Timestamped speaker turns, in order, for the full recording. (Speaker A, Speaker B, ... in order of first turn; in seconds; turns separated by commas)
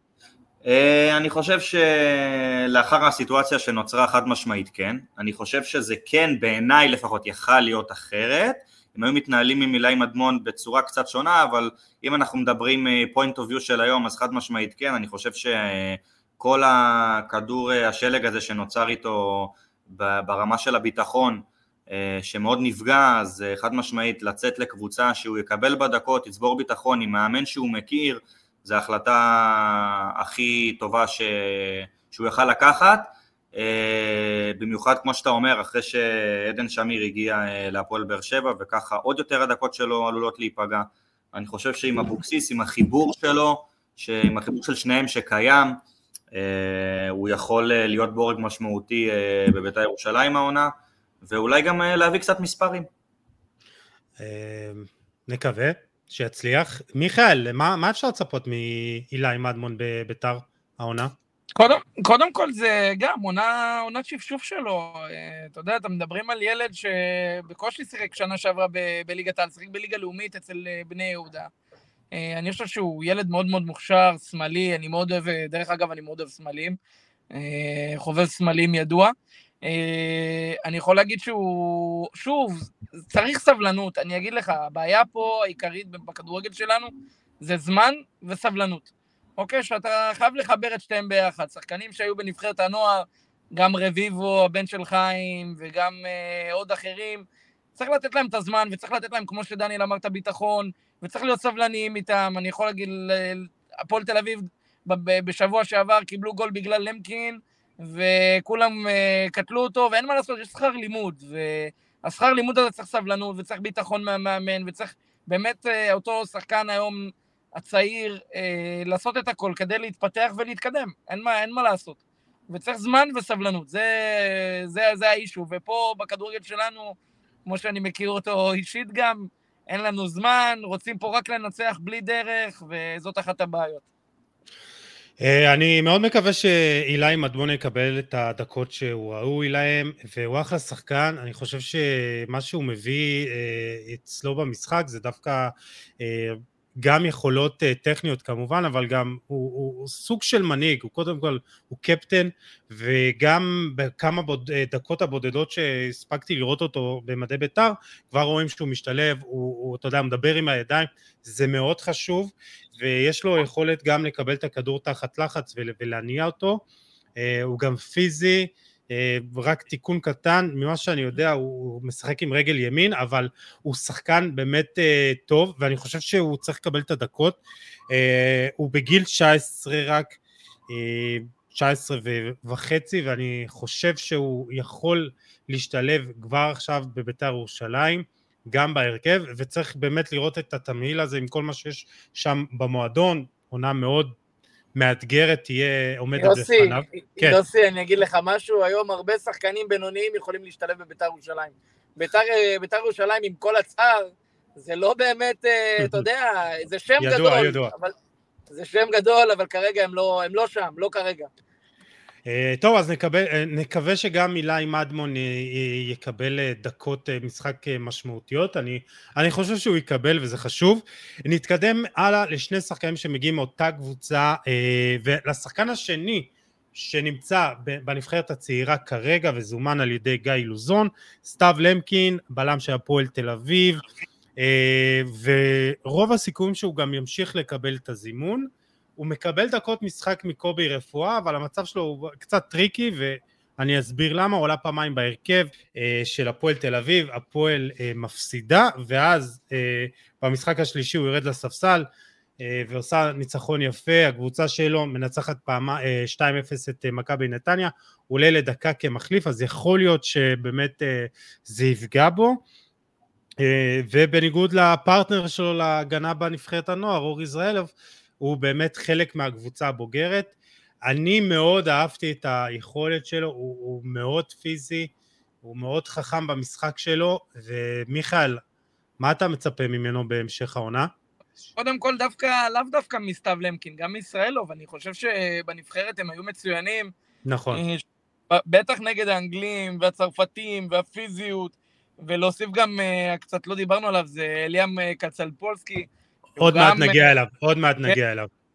Speaker A: 0.6-45.8, Speaker A: 46.3-50.7, Speaker A: 51.2-52.9, Speaker B: 54.2-61.1, Speaker C: 61.6-71.5, Speaker C: 72.1-76.8, Speaker C: 77.3-86.9, Speaker C: 87.4-122.0, Speaker C: 122.5-133.8, Speaker B: 135.2-166.6, Speaker B: 167.2-177.4, Speaker B: 177.9-180.2, Speaker B: 180.7-194.1, Speaker B: 194.8-197.4, Speaker C: 196.2-207.9, Speaker B: 205.8-206.1, Speaker B: 207.0-207.7, Speaker C: 208.5-211.3, Speaker B: 212.2-233.8, Speaker B: 234.4-251.8, Speaker B: 252.4-262.4, Speaker B: 263.4-270.3, Speaker B: 270.9-274.9, Speaker B: 275.4-278.4, Speaker B: 279.0-280.9, Speaker C: 281.6-286.9, Speaker B: 287.2-287.6, Speaker C: 287.5-297.1, Speaker B: 296.4-298.3